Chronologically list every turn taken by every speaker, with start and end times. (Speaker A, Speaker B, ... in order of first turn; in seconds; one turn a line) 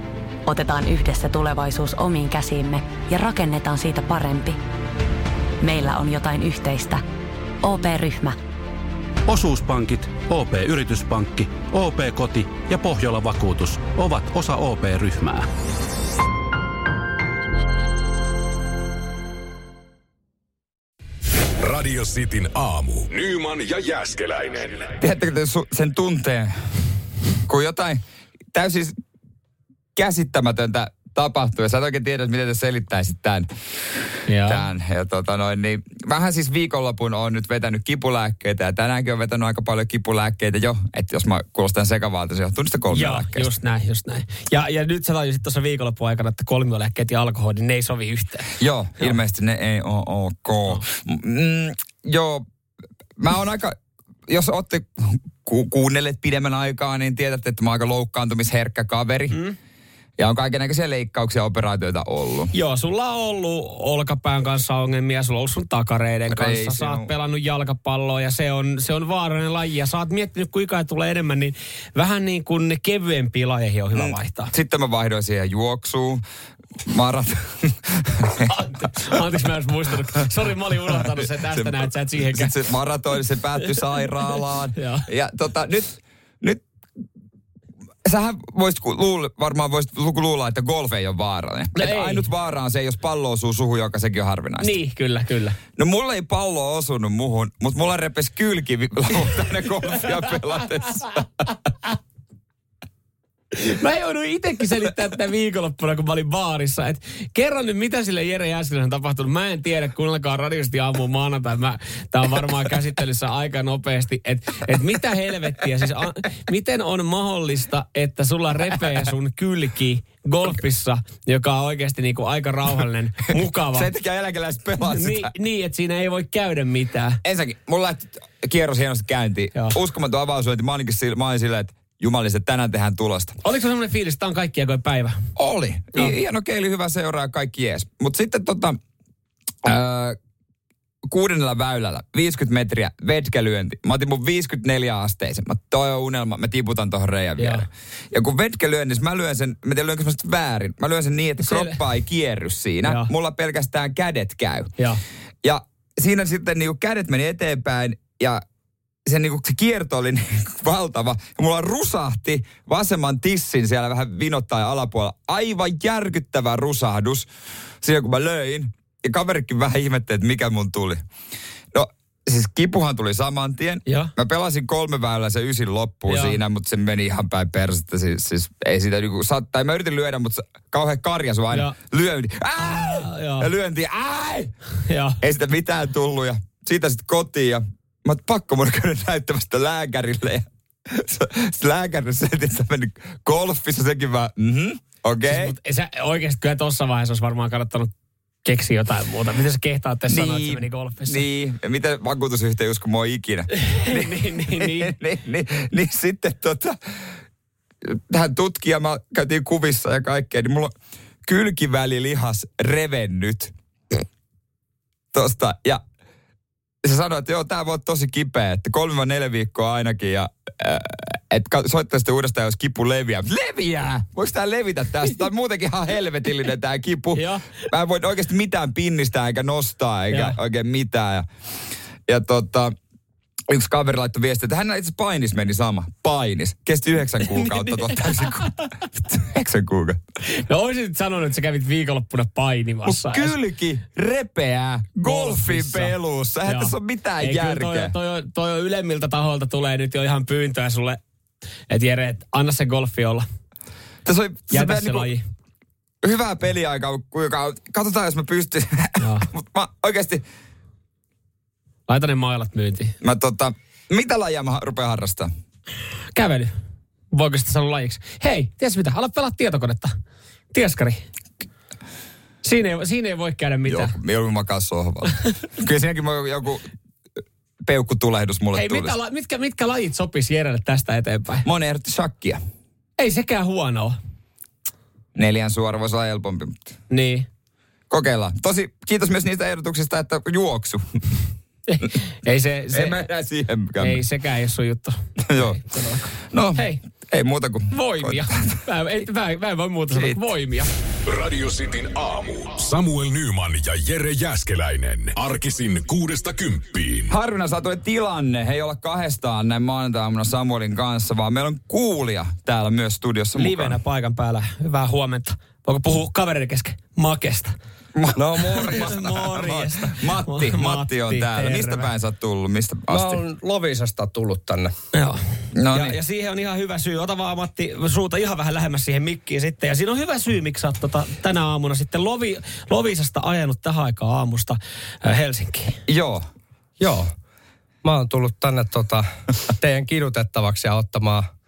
Speaker A: 0.5-4.6
Speaker A: 5.6-7.0
Speaker A: 7.6-8.4
Speaker B: 9.3-15.5
Speaker C: 21.6-24.9
Speaker D: 25.0-26.8
Speaker D: 27.5-28.0
Speaker D: 28.5-29.0
Speaker D: 29.9-33.5
Speaker E: 34.3-34.6
Speaker D: 34.4-43.5
Speaker E: 42.9-49.1
Speaker D: 48.6-52.5
Speaker D: 53.2-59.4
Speaker D: 60.2-62.5
Speaker E: 62.5-74.5
Speaker D: 66.2-67.1
Speaker D: 73.9-76.2
Speaker D: 76.8-78.9
Speaker E: 78.5-82.5
Speaker D: 80.9-86.6
Speaker E: 84.8-85.1
Speaker D: 88.0-94.8
Speaker E: 91.8-92.2
Speaker E: 94.6-95.6
Speaker D: 95.8-101.2
Speaker E: 103.5-123.9
Speaker D: 123.7-125.3
Speaker E: 124.8-127.2
Speaker D: 127.2-133.4
Speaker E: 133.4-135.2
Speaker D: 135.3-138.8
Speaker D: 139.6-140.2
Speaker D: 141.1-154.7
Speaker E: 147.4-147.6
Speaker E: 151.4-151.8
Speaker E: 152.8-153.1
Speaker D: 155.4-158.4
Speaker D: 159.1-167.3
Speaker D: 167.8-171.0
Speaker D: 171.7-184.5
Speaker E: 176.1-176.4
Speaker E: 181.5-181.8
Speaker E: 182.6-183.5
Speaker E: 184.8-185.2
Speaker D: 185.2-195.5
Speaker E: 195.2-197.9
Speaker E: 198.4-201.2
Speaker D: 200.1-207.1
Speaker E: 203.5-204.9
Speaker D: 207.8-214.0
Speaker D: 215.1-215.8
Speaker D: 216.8-231.3
Speaker E: 227.1-227.5
Speaker E: 230.1-230.3
Speaker D: 232.1-232.7
Speaker D: 233.5-240.0
Speaker E: 237.2-238.6
Speaker E: 240.3-243.3
Speaker D: 242.8-247.9
Speaker E: 245.0-245.9
Speaker E: 246.4-251.0
Speaker E: 251.7-253.2
Speaker D: 254.0-255.1
Speaker E: 254.5-255.2
Speaker D: 256.0-260.2
Speaker E: 259.0-259.3
Speaker E: 261.9-262.9
Speaker D: 263.0-265.3
Speaker E: 266.1-266.5
Speaker E: 267.1-269.9
Speaker E: 270.5-271.0
Speaker E: 272.4-273.9
Speaker D: 273.7-276.7
Speaker D: 277.6-278.9
Speaker E: 278.5-281.4
Speaker D: 281.4-282.4
Speaker E: 283.0-284.0
Speaker D: 285.1-286.7
Speaker E: 286.9-287.3
Speaker D: 287.9-291.1
Speaker E: 291.7-293.1
Speaker D: 292.7-294.0
Speaker E: 293.8-295.0
Speaker D: 295.2-298.6
Speaker E: 295.6-296.8
Speaker E: 297.7-300.7
Speaker D: 299.9-300.2
Speaker C: 301.1-307.1
Speaker D: 307.1-313.8
Speaker E: 313.3-317.5
Speaker D: 317.9-323.2
Speaker F: 318.1-318.7
Speaker E: 318.6-321.9
Speaker F: 322.9-324.7
Speaker E: 324.9-335.8
Speaker D: 325.5-326.0
Speaker D: 335.9-336.3
Speaker F: 336.8-337.1
Speaker F: 337.8-341.3